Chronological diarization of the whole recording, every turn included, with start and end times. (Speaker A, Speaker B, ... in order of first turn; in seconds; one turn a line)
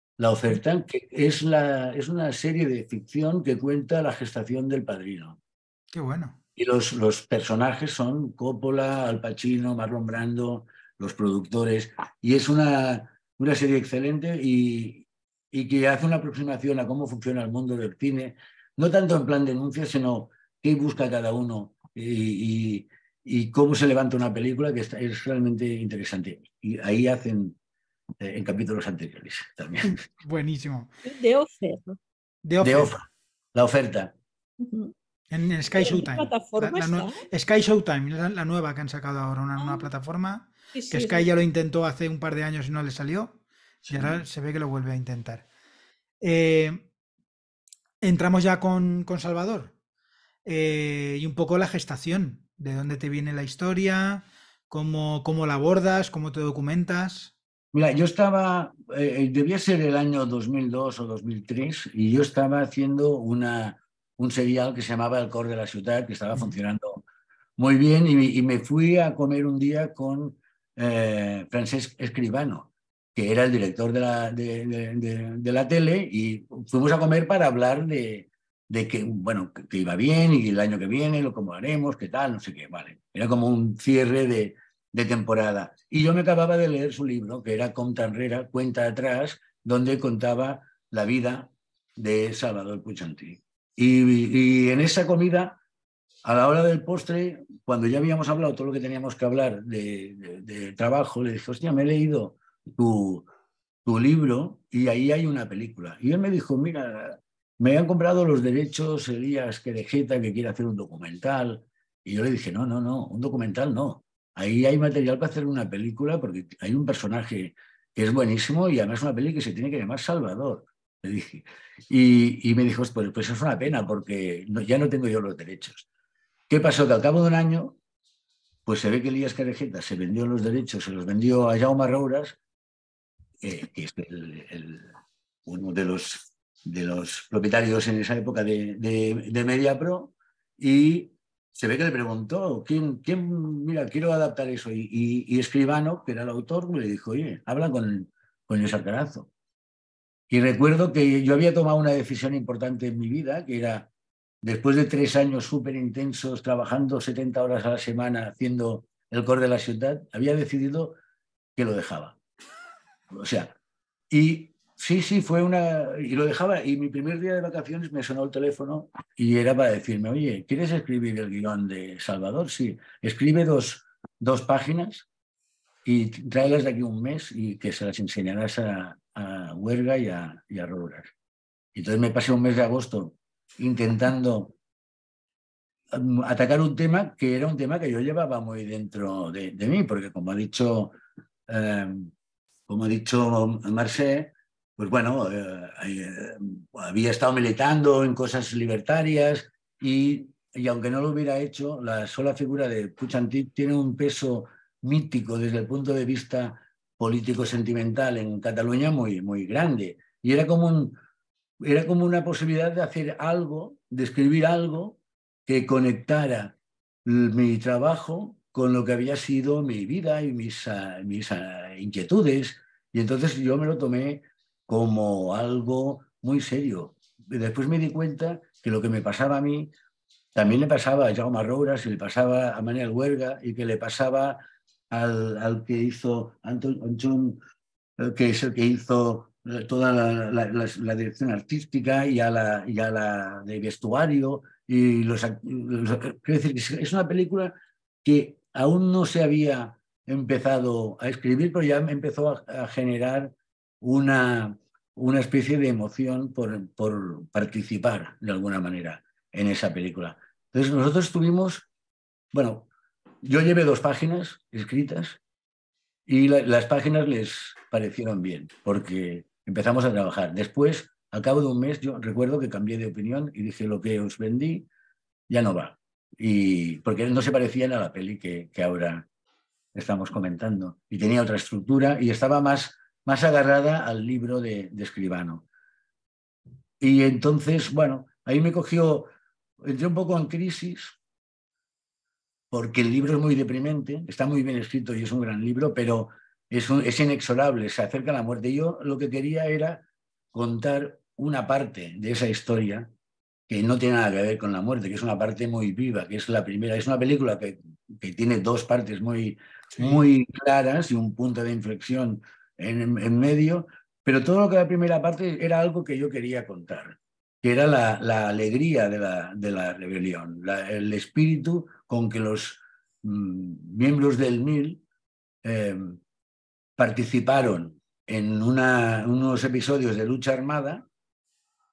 Speaker A: 0.2-5.4
Speaker B: 5.9-6.4
Speaker A: 6.6-27.6
Speaker A: 28.2-30.1
Speaker B: 29.8-30.9
Speaker C: 31.1-32.0
Speaker B: 32.5-32.9
Speaker A: 32.6-34.1
Speaker C: 34.6-34.9
Speaker B: 35.3-43.4
Speaker C: 35.8-37.2
Speaker C: 39.6-39.9
Speaker C: 40.7-41.3
Speaker A: 43.9-44.2
Speaker B: 43.9-45.5
Speaker B: 46.2-46.9
Speaker B: 48.0-49.7
Speaker B: 50.5-57.3
Speaker A: 57.7-67.0
Speaker A: 67.6-95.6
Speaker A: 96.2-103.3
Speaker A: 103.8-125.9
Speaker A: 126.5-127.8
Speaker A: 128.7-132.4
Speaker A: 133.4-134.9
Speaker A: 135.5-149.3
Speaker A: 150.3-153.9
Speaker A: 154.4-161.0
Speaker A: 161.6-162.2
Speaker A: 163.1-163.5
Speaker A: 164.1-175.1
Speaker A: 175.8-181.1
Speaker A: 181.8-184.5
Speaker A: 185.9-191.0
Speaker A: 191.5-192.1
Speaker A: 192.7-211.0
Speaker A: 211.6-229.7
Speaker A: 230.3-237.4
Speaker A: 238.0-261.7
Speaker A: 262.3-262.7
Speaker A: 263.2-265.2
Speaker A: 266.1-274.7
Speaker A: 275.3-279.1
Speaker A: 279.8-285.4
Speaker A: 286.8-289.1
Speaker A: 289.6-291.0
Speaker A: 292.5-299.8
Speaker A: 300.3-302.9
Speaker A: 303.5-324.8
Speaker B: 309.8-310.0
Speaker A: 325.4-326.0
Speaker A: 326.8-330.9